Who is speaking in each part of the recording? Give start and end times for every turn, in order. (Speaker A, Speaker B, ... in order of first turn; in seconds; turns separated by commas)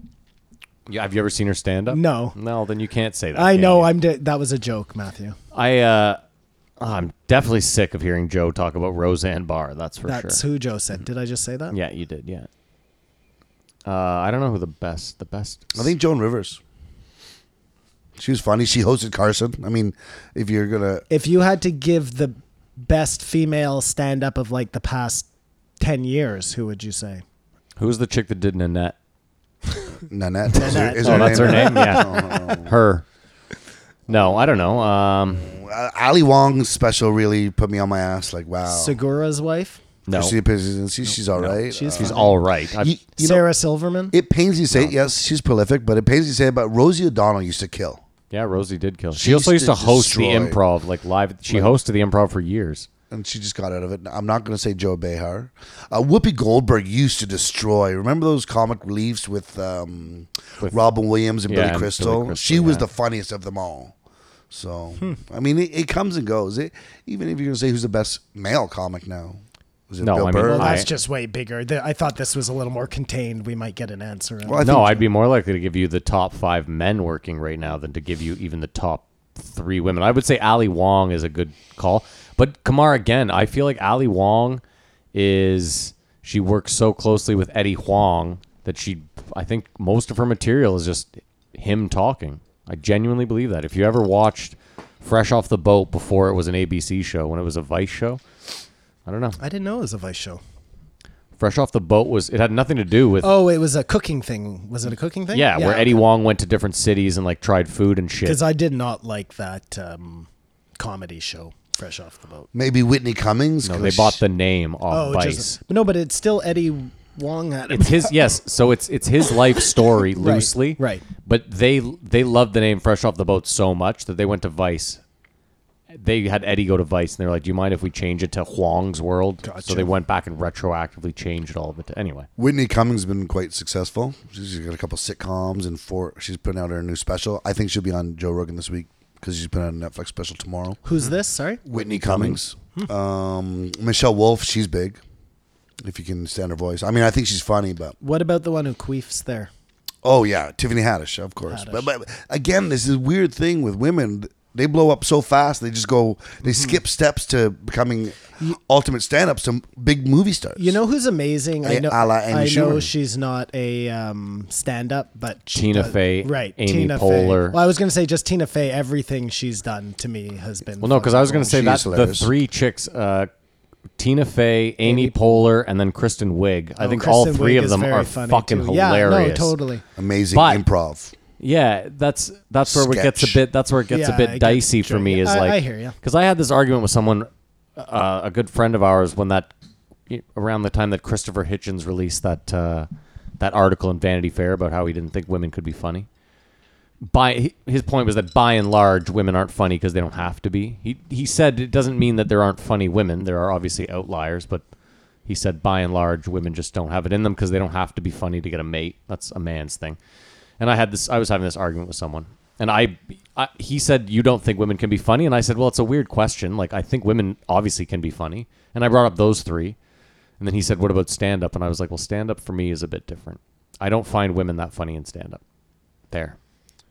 Speaker A: 0.9-3.9, Speaker B: 1.9-2.4, Speaker B: 3.3-5.4, Speaker A: 5.5-6.2, Speaker A: 6.8-10.4, Speaker B: 10.1-11.7, Speaker A: 11.7-12.5, Speaker A: 13.8-15.9, Speaker C: 15.7-16.6, Speaker C: 18.2-21.1, Speaker B: 21.1-25.3, Speaker B: 25.8-27.2, Speaker A: 27.8-28.9, Speaker C: 30.1-32.7, Speaker B: 30.5-32.6, Speaker A: 31.0-33.0, Speaker A: 34.1-35.5, Speaker C: 34.1-34.6, Speaker C: 35.4-39.0, Speaker B: 38.6-39.8, Speaker A: 40.0-40.3, Speaker C: 40.1-43.4, Speaker B: 41.1-42.4, Speaker A: 41.4-42.9, Speaker B: 43.2-44.1, Speaker C: 44.1-48.0, Speaker A: 48.3-52.9, Speaker C: 49.1-50.6, Speaker C: 51.5-51.8, Speaker C: 53.1-63.9, Speaker A: 61.5-62.8, Speaker C: 64.5-70.8, Speaker A: 70.0-70.9, Speaker B: 70.4-75.0, Speaker C: 74.4-75.0, Speaker A: 74.6-84.6, Speaker A: 85.1-98.2, Speaker A: 99.0-99.4, Speaker B: 99.4-100.4, Speaker A: 101.4-103.3, Speaker B: 103.2-106.0, Speaker A: 105.3-108.4, Speaker B: 108.2-110.3, Speaker B: 110.8-112.5, Speaker C: 112.5-114.2, Speaker A: 113.6-115.6, Speaker B: 114.9-118.4, Speaker A: 117.7-125.0, Speaker B: 119.3-121.0, Speaker A: 125.9-132.3, Speaker B: 129.4-129.9, Speaker C: 132.4-140.8, Speaker B: 140.8-141.6, Speaker C: 141.7-145.0, Speaker A: 142.0-142.3, Speaker C: 145.8-147.9, Speaker B: 148.0-149.5, Speaker C: 150.0-160.8, Speaker B: 151.5-151.9, Speaker B: 156.4-156.8, Speaker B: 160.6-171.7, Speaker C: 161.6-162.9, Speaker A: 165.5-167.6, Speaker A: 170.8-173.3, Speaker C: 171.5-172.3, Speaker A: 174.0-179.5, Speaker B: 174.8-175.4, Speaker B: 176.8-179.8, Speaker C: 179.9-181.1, Speaker A: 180.3-180.6, Speaker A: 181.4-189.5, Speaker C: 182.7-183.4, Speaker B: 183.9-186.0, Speaker A: 190.1-192.9, Speaker A: 193.4-196.1, Speaker A: 197.0-204.6, Speaker A: 205.2-210.0, Speaker A: 210.6-219.8, Speaker A: 220.4-225.4